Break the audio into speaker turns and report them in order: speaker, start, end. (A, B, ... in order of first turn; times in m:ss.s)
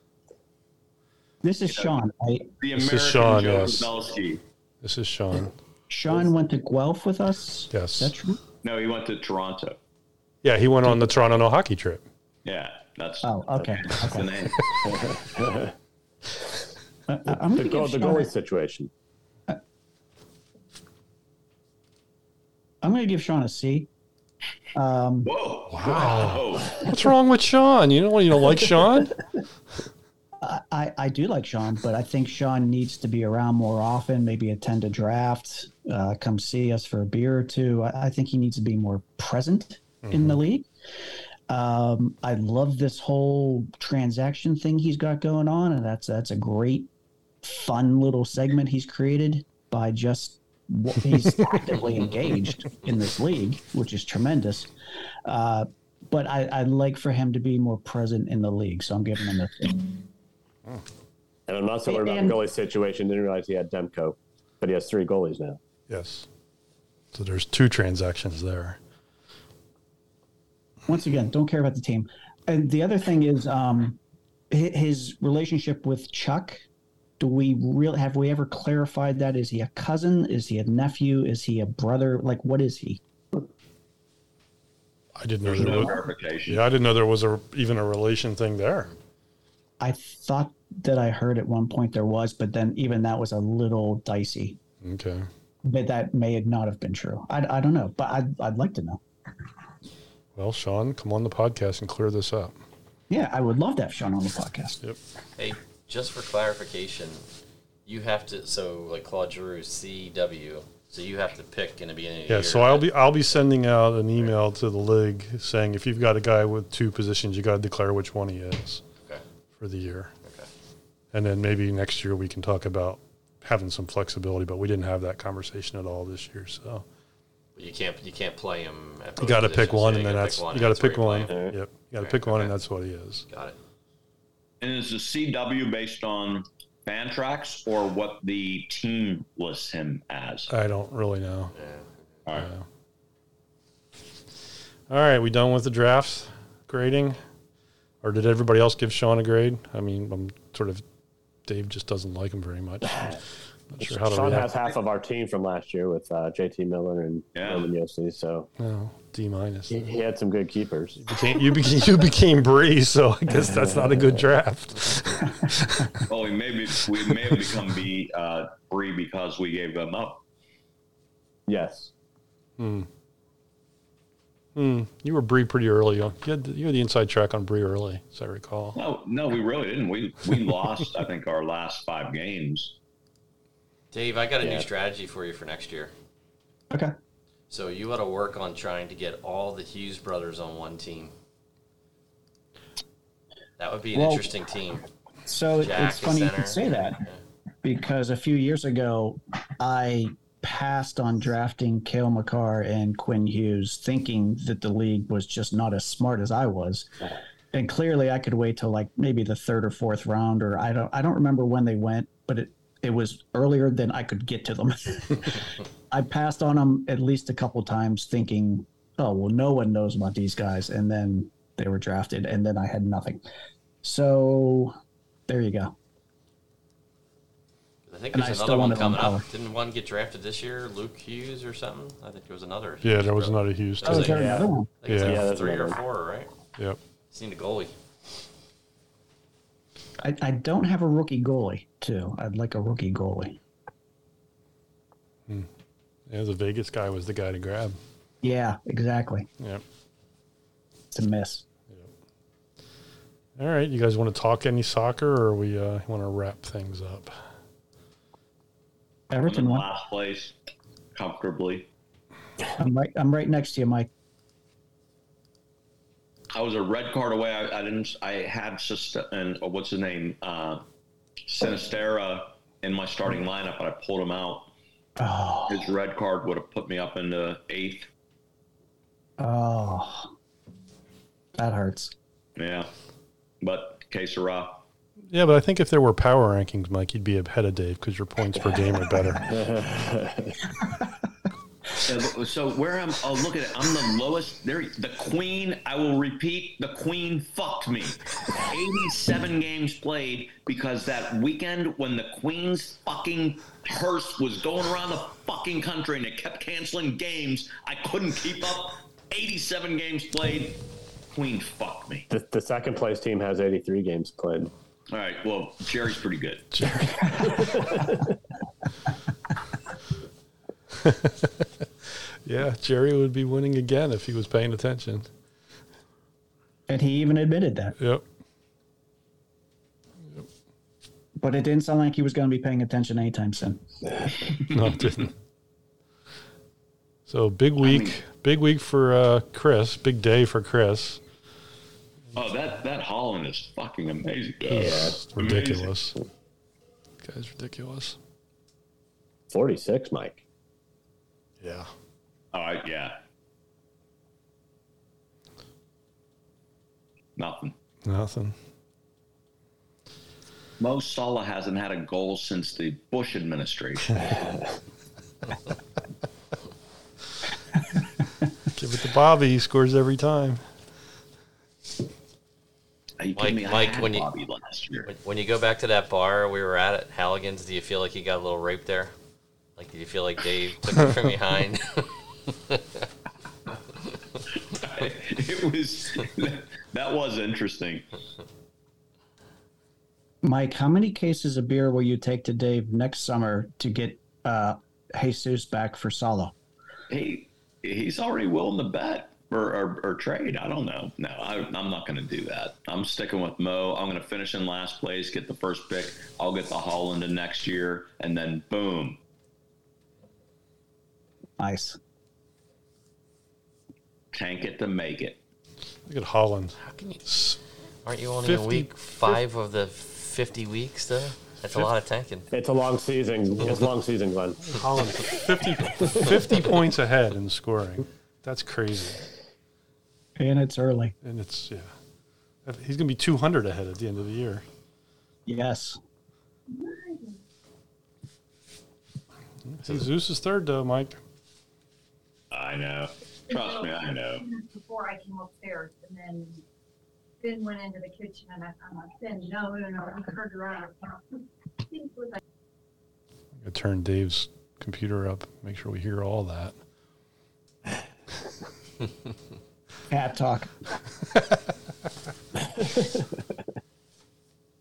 0:01.4-0:02.5 A
0:02.6-0:04.4 B
0:02.7-0:03.9 C
0:04.8-0:05.6 C
0:05.9-0:08.4 A
0:07.7-0:08.1 C
0:08.6-0:09.8 B
0:10.4-0:12.0 C
0:12.4-0:14.9 B
0:13.2-0:14.4 A
0:14.8-0:15.7 D
0:17.1-0:18.3 A
0:17.5-0:18.9 D
0:22.8-0:23.9 A
0:24.7-0:25.3 A
0:25.2-0:26.9 B
0:25.7-0:29.2 C
0:30.4-0:40.7 A
0:40.0-0:40.4 C
0:41.5-0:46.9 A
0:47.4-0:54.7 A
0:55.2-1:00.0 A
1:01.5-1:05.6 D
1:01.9-1:02.4 A
1:05.9-1:06.3 C
1:07.1-1:08.8 C
1:10.9-1:14.0 A
1:14.5-1:16.6 A
1:17.2-1:23.0 A
1:25.2-1:28.9 C
1:25.4-1:26.6 B
1:29.8-1:34.6 A
1:34.8-1:35.3 C
1:35.6-1:39.0 A
1:40.4-1:42.6 C
1:43.1-1:44.8 A
1:45.4-1:47.2 E
1:47.9-1:53.4 E
1:52.3-1:58.8 C
1:59.6-2:00.1 C
2:00.2-2:00.5 E
2:01.1-2:06.8 C
2:07.6-2:11.4 E
2:09.2-2:13.3 C
2:11.3-2:11.6 D
2:12.0-2:12.5 E
2:13.3-2:13.6 E
2:14.6-2:20.5 B
2:20.5-2:21.5 C
2:21.5-2:21.9 E
2:22.3-2:22.6 C
2:24.9-2:27.2 C
2:28.0-2:30.8 C
2:31.5-2:33.2 C
2:32.9-2:33.2 D
2:33.7-2:34.5 C
2:33.8-2:38.5 D
2:37.4-2:37.7 B
2:38.6-2:39.8 C
2:39.7-2:41.2 D
2:41.1-2:45.9 C
2:43.3-2:44.2 D
2:46.1-2:50.2 B
2:51.5-2:51.9 D
2:52.6-2:52.9 C
2:54.6-2:58.8 C
2:58.7-3:02.8 B
3:03.9-3:05.9 E
3:04.4-3:04.7 D
3:07.5-3:11.1 E
3:13.6-3:14.8 E
3:13.9-3:14.2 A
3:15.3-3:17.0 A
3:15.6-3:17.2 E
3:17.6-3:26.9 A
3:27.5-3:43.2 A
3:43.8-3:44.8 A
3:45.3-3:45.7 A
3:47.9-3:56.3 E
3:48.1-3:49.2 A
3:52.8-3:54.2 C
3:53.8-3:54.7 A
3:53.9-3:55.8 D
3:54.8-3:55.2 C
3:57.1-3:57.7 E
4:00.0-4:03.4 A
4:06.1-4:07.8 C
4:08.2-4:09.3 A
4:10.9-4:11.4 A
4:13.4-4:17.1 C
4:19.1-4:19.7 A
4:19.3-4:20.4 B
4:20.9-4:21.7 B
4:22.6-4:23.9 A
4:26.3-4:30.6 B
4:31.3-4:34.5 B
4:35.0-4:35.7 A
4:35.5-4:37.9 B
4:39.2-4:40.1 A
4:41.4-4:41.9 A
4:42.4-4:42.7 B
4:43.4-4:44.6 B
4:45.1-4:49.3 C
4:48.4-4:50.4 D
4:51.8-5:10.6 B
5:11.2-5:12.1 B
5:12.1-5:14.5 D
5:14.9-5:16.4 B
5:16.5-5:17.4 C
5:17.3-5:18.0 D
5:20.8-5:21.4 C
5:22.2-5:25.1 C
5:26.7-5:27.7 A
5:27.8-5:28.0 C
5:31.2-5:33.6 A
5:34.2-5:35.0 B
5:34.5-5:35.1 C
5:37.1-5:41.0 C
5:37.6-5:38.0 B
5:42.2-5:45.7 B
5:44.4-5:46.0 C
5:44.6-5:45.0 D
5:47.0-5:48.0 C
5:49.3-5:50.2 D
5:51.4-5:51.7 C
5:52.3-5:53.0 B
5:57.2-5:57.5 B
5:57.8-5:58.4 C
6:00.6-6:04.2 B
6:08.5-6:10.4 C
6:13.0-6:14.9 B
6:13.2-6:14.1 E
6:14.9-6:18.9 E
6:19.6-6:22.8 E
6:24.5-6:27.9 B
6:30.2-6:36.3 A
6:36.9-6:49.0 B
6:51.4-6:51.8 A
6:54.1-6:55.2 B
6:55.9-6:57.4 C
6:56.6-6:57.3 E
6:57.8-7:02.3 E
6:58.2-6:59.2 C
7:02.3-7:04.4 D
7:04.4-7:09.0 C
7:10.2-7:10.9 A
7:11.0-7:11.7 C
7:12.4-7:14.4 C
7:15.3-7:15.8 A
7:16.5-7:17.2 F
7:19.5-7:21.0 C
7:22.3-7:24.2 B
7:23.3-7:26.4 F
7:27.2-7:32.2 F
7:33.4-7:36.6 C
7:39.9-7:40.6 A
7:42.6-7:43.0 D